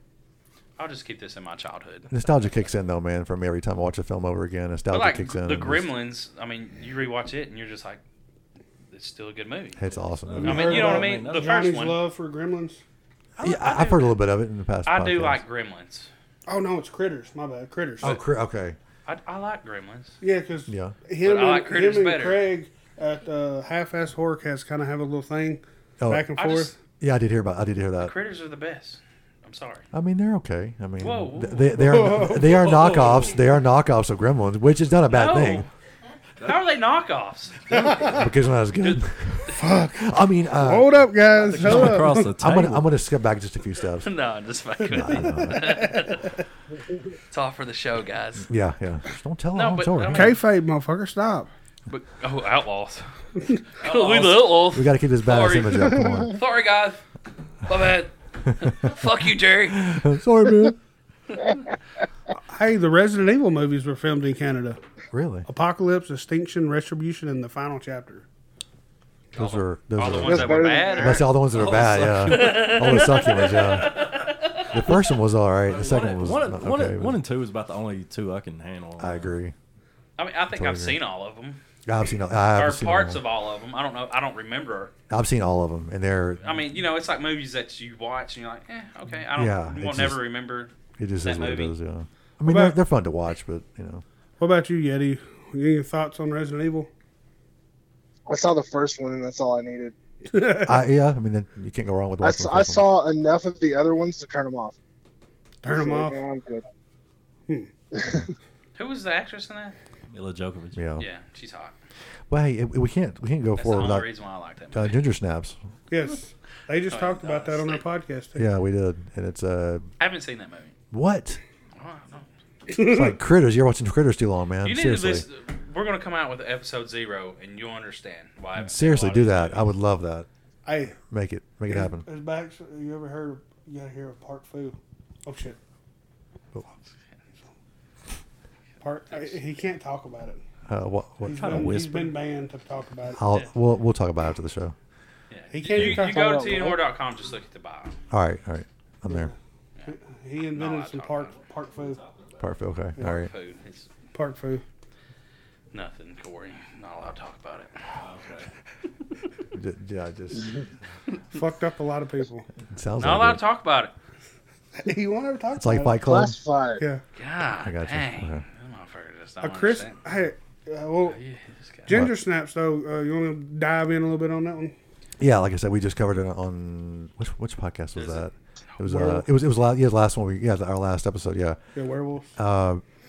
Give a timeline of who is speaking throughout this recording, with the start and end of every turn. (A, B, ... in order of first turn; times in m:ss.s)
0:00.8-0:02.2 A
0:02.1-0:05.9 B
0:04.9-0:08.0 A
0:08.9-0:12.0 A
0:09.8-0:10.9 B
0:10.2-0:11.6 C
0:10.4-0:12.8 D
0:13.4-0:14.2 A
0:13.4-0:15.4 B
0:14.9-0:16.1 A
0:16.5-0:18.2 D
0:18.0-0:18.8 B
0:19.1-0:20.2 A
0:20.2-0:26.8 D
0:20.7-0:21.0 B
0:21.2-0:22.4 A
0:26.0-0:26.3 B
0:26.4-0:26.7 A
0:27.0-0:28.1 B
0:28.0-0:29.9 A
0:29.9-0:35.7 B
0:31.0-0:32.0 A
0:31.8-0:32.8 D
0:32.6-0:33.4 C
0:35.1-0:35.7 A
0:36.4-0:38.2 A
0:37.7-0:38.2 C
0:38.1-0:41.0 B
0:38.8-0:39.6 A
0:39.6-0:42.4 D
0:41.5-0:42.9 C
0:41.5-0:41.9 A
0:41.6-0:44.1 B
0:44.0-0:46.3 A
0:44.9-0:45.8 B
0:45.4-0:46.4 D
0:47.3-0:48.5 A
0:48.5-0:50.4 B
0:49.5-0:50.4 A
0:50.1-0:51.5 D
0:51.9-0:53.1 A
0:53.4-0:53.6 D
0:53.8-0:57.0 A
0:54.6-0:56.4 B
0:57.7-0:59.9 A
0:59.7-1:00.8 B
1:02.5-1:04.8 D
1:05.1-1:05.5 B
1:05.5-1:08.2 D
1:09.3-1:11.3 A
1:09.3-1:14.1 B
1:10.1-1:11.3 E
1:11.5-1:12.8 C
1:12.2-1:14.7 A
1:14.7-1:17.2 B
1:15.7-1:19.3 C
1:19.0-1:19.6 B
1:20.2-1:21.6 A
1:20.5-1:21.0 B
1:21.8-1:23.2 B
1:22.5-1:24.9 A
1:25.1-1:26.6 B
1:26.4-1:30.7 A
1:29.3-1:30.2 B
1:31.0-1:34.0 B
1:31.2-1:31.8 A
1:32.4-1:32.8 D
1:34.4-1:36.9 D
1:38.3-1:40.0 E
1:40.3-1:40.8 D
1:40.6-1:42.9 B
1:42.2-1:44.8 E
1:45.6-1:46.2 D
1:45.7-1:46.7 E
1:47.9-1:48.3 E
1:48.8-1:49.8 A
1:50.1-1:50.8 C
1:50.8-1:51.1 B
1:51.0-1:51.8 A
1:52.3-1:54.1 B
1:53.6-1:55.0 A
1:54.7-1:55.6 B
1:55.9-1:58.5 D
1:56.9-1:57.8 A
1:58.4-1:59.9 B
2:00.0-2:00.8 A
2:00.9-2:01.4 B
2:01.8-2:02.3 A
2:02.7-2:03.1 D
2:02.7-2:05.2 B
2:04.6-2:09.7 A
2:08.6-2:10.3 B
2:10.6-2:11.0 D
2:10.9-2:12.1 B
2:11.7-2:15.6 D
2:18.8-2:20.4 D
2:20.7-2:22.1 B
2:21.2-2:23.2 D
2:21.4-2:21.9 C
2:23.2-2:24.8 B
2:25.3-2:28.0 A
2:25.5-2:26.7 D
2:26.1-2:26.8 E
2:28.1-2:29.3 B
2:29.1-2:29.3 D
2:29.9-2:32.0 D
2:30.5-2:31.4 A
2:31.5-2:32.5 C
2:32.4-2:33.3 B
2:33.0-2:33.9 A
2:34.1-2:34.6 D
2:35.7-2:37.9 A
2:38.0-2:38.5 C
2:39.5-2:40.6 B
2:41.3-2:42.5 D
2:42.7-2:43.4 B
2:43.0-2:43.9 A
2:44.8-2:46.0 D
2:45.6-2:46.4 B
2:46.0-2:46.8 E
2:47.2-2:50.0 A
2:47.6-2:48.4 B
2:49.4-2:51.2 D
2:51.1-2:52.0 A
2:51.9-2:54.7 D
2:51.9-2:52.2 B
2:55.2-3:01.6 B
2:58.0-2:58.3 A
2:58.8-2:59.3 D
3:01.8-3:02.3 D
3:02.4-3:02.8 B